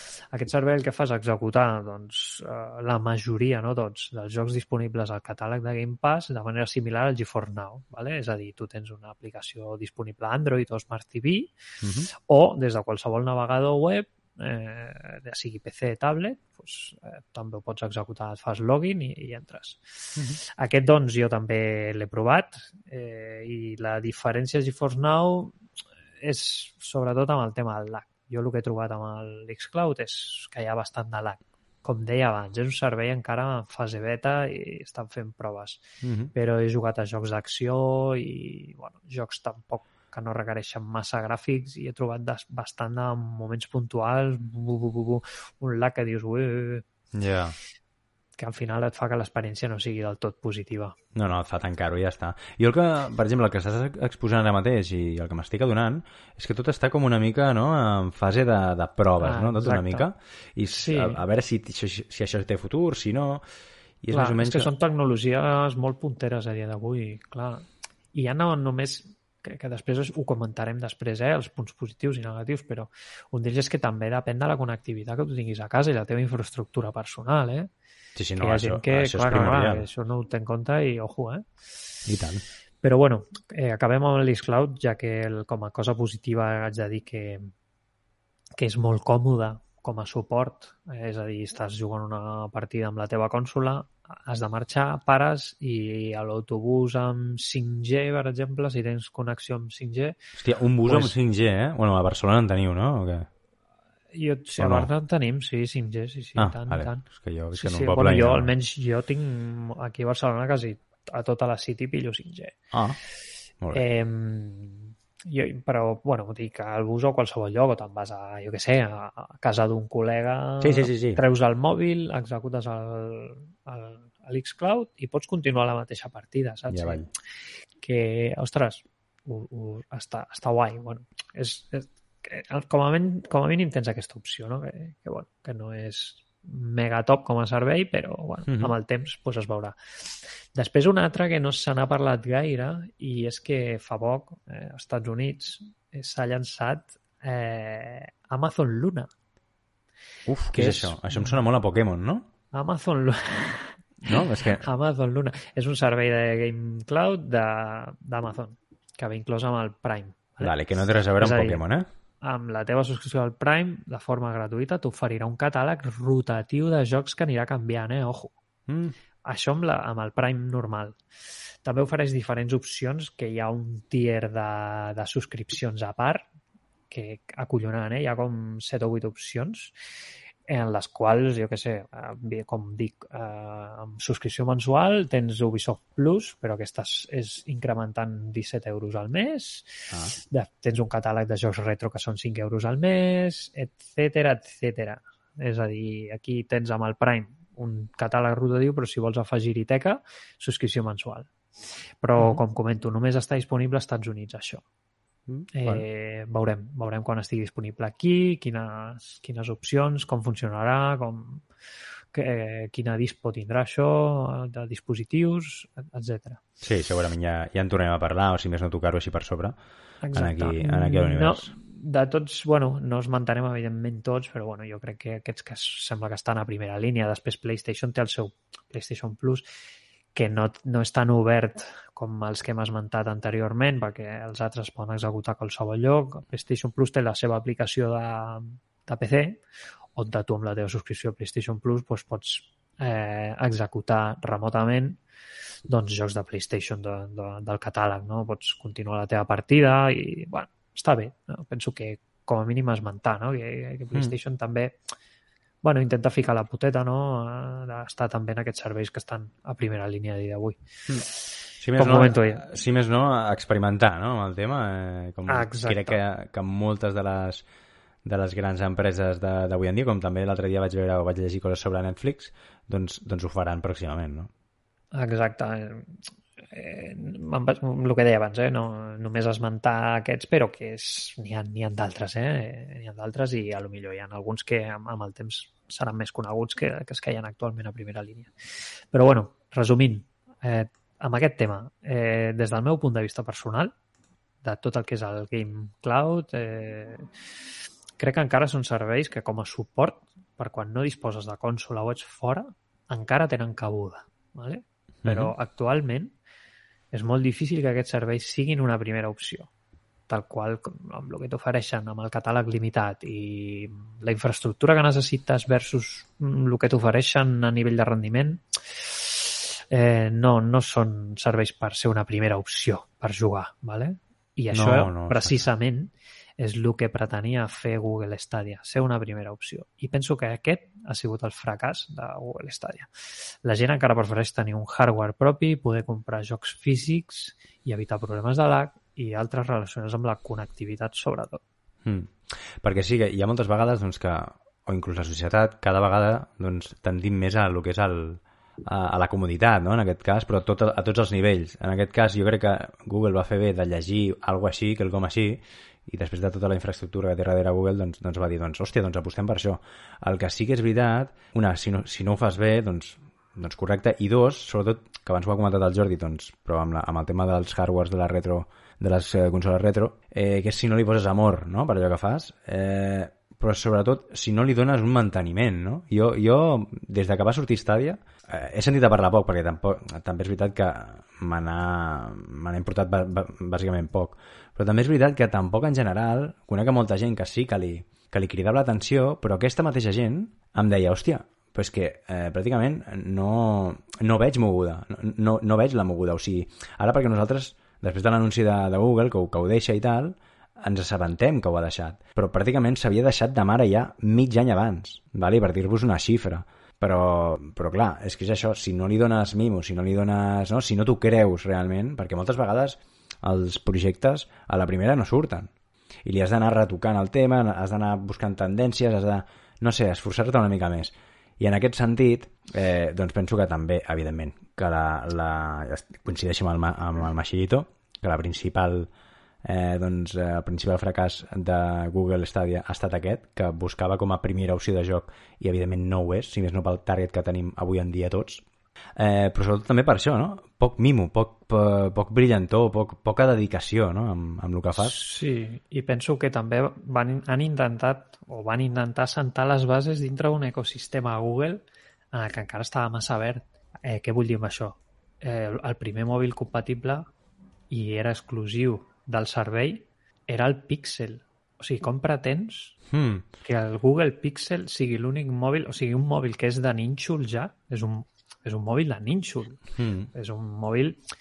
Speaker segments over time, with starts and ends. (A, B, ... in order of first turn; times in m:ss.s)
0:00.3-0:11.5 A
0:11.8-0:12.1 B
0:12.2-0:25.6 A
0:26.2-0:35.8 A
0:36.0-0:36.3 B
0:36.3-0:46.8 A
0:47.1-0:47.6 B
0:48.4-0:50.9 A
0:51.1-1:03.4 B
0:59.2-1:00.0 A
1:00.7-1:01.2 A
1:04.0-1:04.7 B
1:04.1-1:17.7 A
1:18.2-1:19.9 B
1:18.4-1:21.5 A
1:22.0-1:22.4 B
1:22.8-1:27.5 A
1:28.6-1:40.2 A
1:40.4-1:43.3 B
1:40.8-1:41.1 A
1:44.1-1:52.6 A
1:44.6-1:44.9 B
1:46.4-1:48.5 B
1:52.7-1:53.0 B
1:53.7-2:07.0 A
2:00.6-2:01.2 B
2:06.7-2:07.1 B
2:07.8-2:29.1 A
2:18.5-2:18.7 B
2:30.3-2:32.3 B
2:30.5-2:31.4 A
2:32.5-2:40.5 A
2:34.0-2:34.6 B
2:40.4-2:41.8 B
2:41.2-2:41.6 A
2:42.2-2:48.3 A
2:48.7-2:48.9 B
2:49.2-2:51.0 A
2:51.6-2:56.2 A
2:56.9-2:59.7 A
3:00.5-3:21.3 A
3:22.0-3:24.6 A
3:22.2-3:22.4 B
3:25.3-3:25.8 B
3:25.5-3:31.4 A
3:32.1-3:36.4 A
3:36.6-3:39.5 B
3:40.0-3:49.4 A
3:40.1-3:41.5 B
3:50.1-3:59.4 A
3:59.9-4:05.0 A
4:05.7-4:14.8 A
4:15.6-4:22.4 A
4:21.6-4:27.4 B
4:25.3-4:26.0 A
4:28.0-4:34.3 B
4:34.9-4:36.0 A
4:36.5-4:48.3 A
4:48.9-4:53.7 A
4:54.4-4:57.1 A
4:58.0-5:06.1 A
5:05.0-5:05.3 B
5:06.9-5:09.5 A
5:10.1-5:41.4 A
5:24.5-5:25.4 B
5:41.8-6:55.5 B
6:56.0-7:08.9 B
7:09.4-7:18.4 B
7:19.0-7:25.0 B
7:24.8-7:37.1 A
7:37.7-7:42.8 A
7:42.9-7:43.2 B
7:43.4-7:49.6 A
7:49.7-7:50.1 B
7:50.1-7:51.0 A